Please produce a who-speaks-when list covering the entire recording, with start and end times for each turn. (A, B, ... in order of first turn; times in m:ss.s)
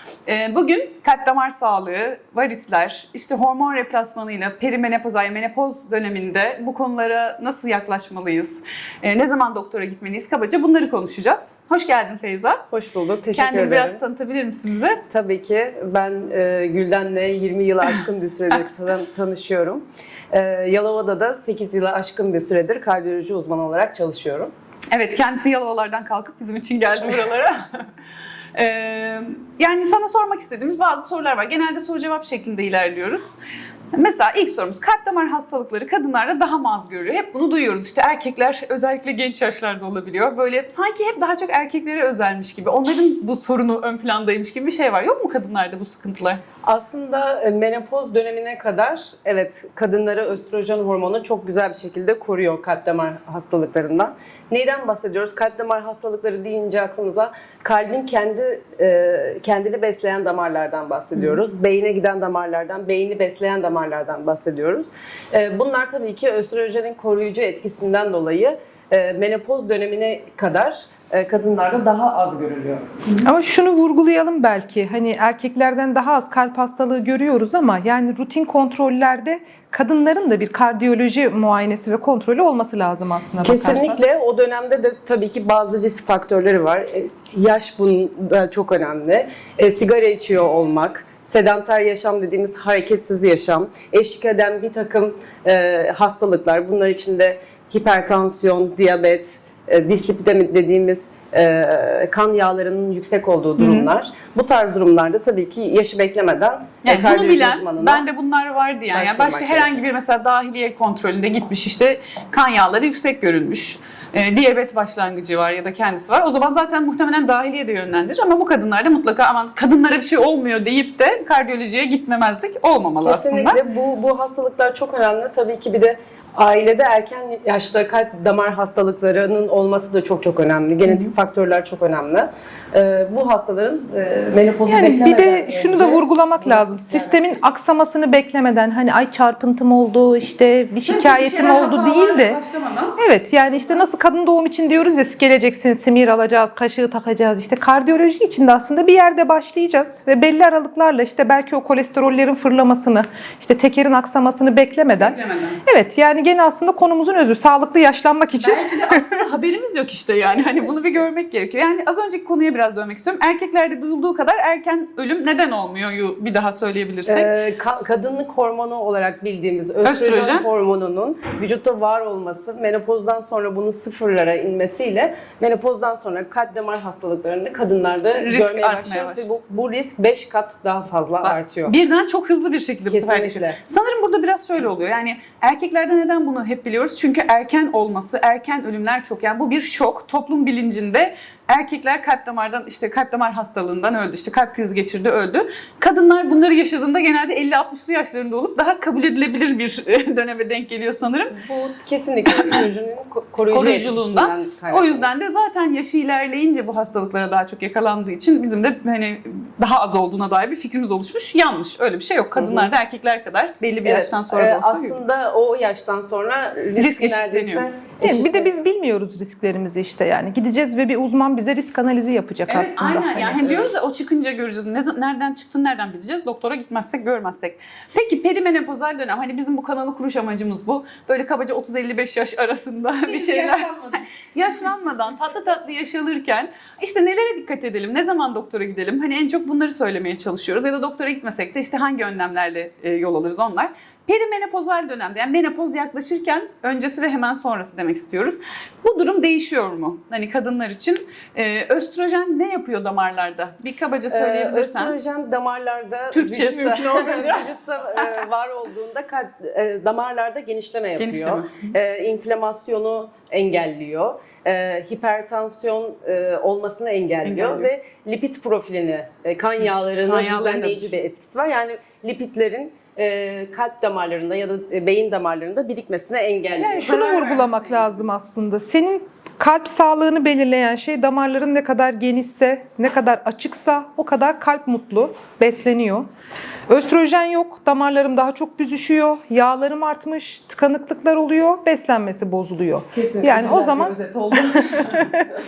0:00.2-0:12.6 A
0:12.7-0:14.0 B
0:13.3-0:15.0 A
0:15.1-0:24.5 B
0:24.9-0:27.9 A
0:28.6-0:33.3 A
0:33.9-0:46.4 A
0:46.6-1:12.9 B
1:13.2-1:24.0 C
1:23.4-1:48.0 B
1:43.6-1:43.9 A
1:46.8-2:03.6 A
1:48.9-1:49.8 B
2:03.0-2:17.2 B
2:14.7-2:22.4 C
2:20.8-2:23.0 A
2:23.0-2:39.2 C
2:35.0-2:35.6 A
2:38.4-2:47.3 A
2:47.1-3:01.7 B
2:49.8-2:50.4 A
2:58.2-2:59.2 A
3:01.2-3:21.4 A
3:02.9-3:03.6 B
3:21.3-3:25.1 B
3:22.4-3:22.6 A
3:23.5-3:35.0 A
3:32.4-3:32.7 B
3:33.8-3:38.6 B
3:36.8-3:37.7 A
3:38.0-3:43.4 C
3:42.5-3:53.7 A
3:43.4-3:43.7 B
3:53.1-3:54.0 C
3:54.3-4:15.0 A
4:14.1-4:36.9 B
4:16.1-4:18.2 A
4:21.0-4:21.7 A
4:27.2-4:27.7 A
4:30.0-4:31.0 A
4:36.6-4:46.1 C
4:36.8-4:38.0 A
4:46.7-4:55.3 C
4:52.9-4:55.0 B